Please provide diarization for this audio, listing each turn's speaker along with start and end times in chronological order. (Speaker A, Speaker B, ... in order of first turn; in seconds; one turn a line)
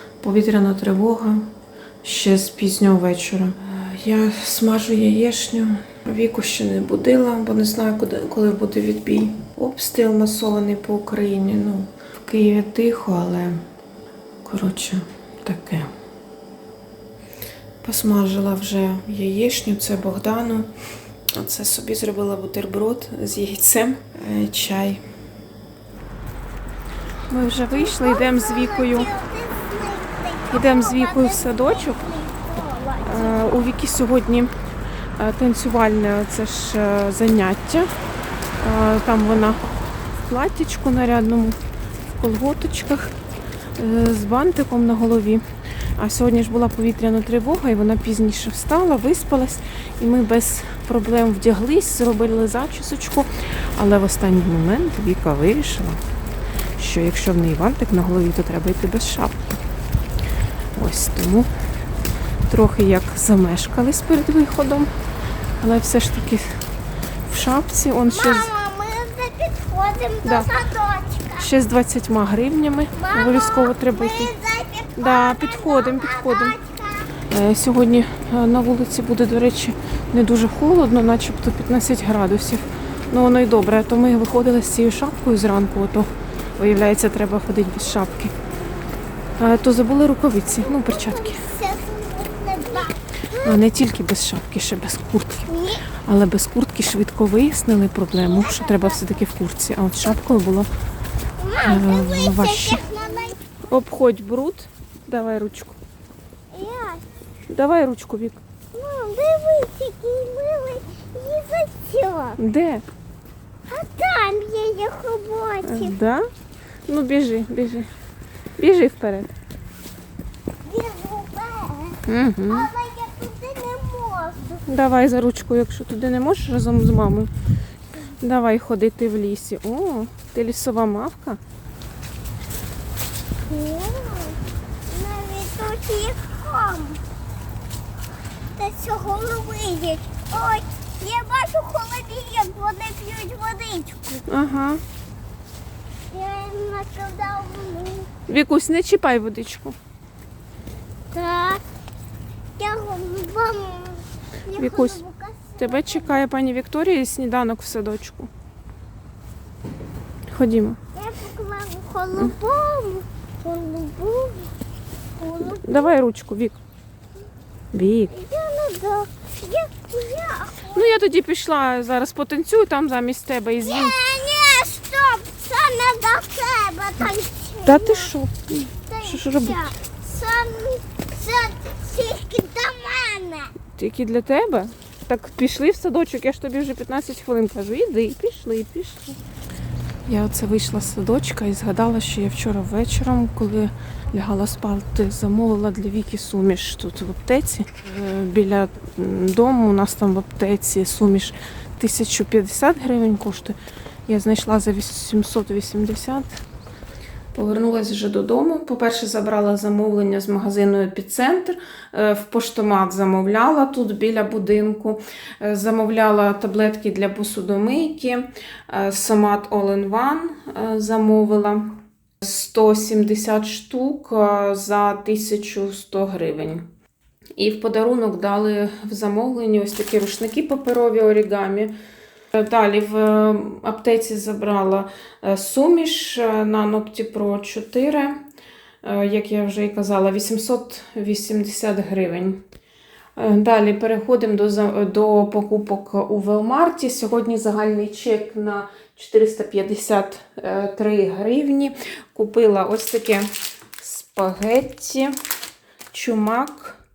Speaker A: 0.2-1.5
Speaker A: 2.0-13.6
Speaker A: 14.4-15.9
Speaker A: 17.8-20.7
Speaker A: 21.4-25.0
Speaker A: 27.3-29.1
Speaker B: 27.6-33.6
Speaker A: 30.5-32.1
Speaker A: 33.0-34.5
Speaker A: 35.2-37.9
Speaker A: 38.6-39.6
Speaker A: 40.3-41.6
Speaker A: 42.2-43.1
Speaker A: 43.8-45.4
Speaker A: 46.0-56.0
Speaker A: 56.8-59.6
Speaker A: 60.7-61.5
Speaker A: 62.5-64.9
Speaker A: 65.6-66.6
Speaker A: 67.3-68.5
Speaker B: 68.1-71.5
Speaker A: 70.2-70.5
Speaker A: 71.4-74.3
Speaker B: 73.0-77.1
Speaker A: 75.0-76.5
Speaker A: 77.2-88.3
Speaker A: 89.4-91.4
Speaker B: 90.5-93.5
Speaker A: 93.4-100.7
Speaker B: 95.5-95.8
Speaker B: 98.3-99.0
Speaker B: 101.4-103.4
Speaker A: 101.6-102.8
Speaker A: 103.7-105.8
Speaker B: 106.5-107.0
Speaker A: 107.5-108.4
Speaker B: 108.7-112.4
Speaker A: 112.4-112.8
Speaker B: 113.7-115.9
Speaker A: 115.6-116.2
Speaker A: 116.9-117.9
Speaker A: 118.6-119.3
Speaker B: 120.6-124.6
Speaker A: 122.0-122.7
Speaker A: 124.7-127.3
Speaker A: 128.2-131.4
Speaker B: 133.5-137.0
Speaker B: 138.6-144.2
Speaker A: 144.3-144.8
Speaker B: 146.1-148.1
Speaker A: 148.3-149.8
Speaker B: 151.1-151.6
Speaker B: 152.6-156.2
Speaker A: 154.6-155.0
Speaker A: 155.6-158.3
Speaker A: 160.3-160.8
Speaker B: 160.9-164.5
Speaker B: 165.2-165.9
Speaker A: 165.6-166.6
Speaker A: 167.7-168.1
Speaker B: 168.1-170.9
Speaker A: 170.7-174.0
Speaker B: 173.6-178.1
Speaker A: 177.6-179.7
Speaker B: 178.9-183.5
Speaker A: 183.7-189.2
Speaker A: 190.1-206.4
Speaker A: 207.3-226.7
Speaker A: 227.4-231.7
Speaker A: 232.3-238.2
Speaker A: 238.8-242.4
Speaker A: 243.2-255.2
Speaker A: 255.9-256.8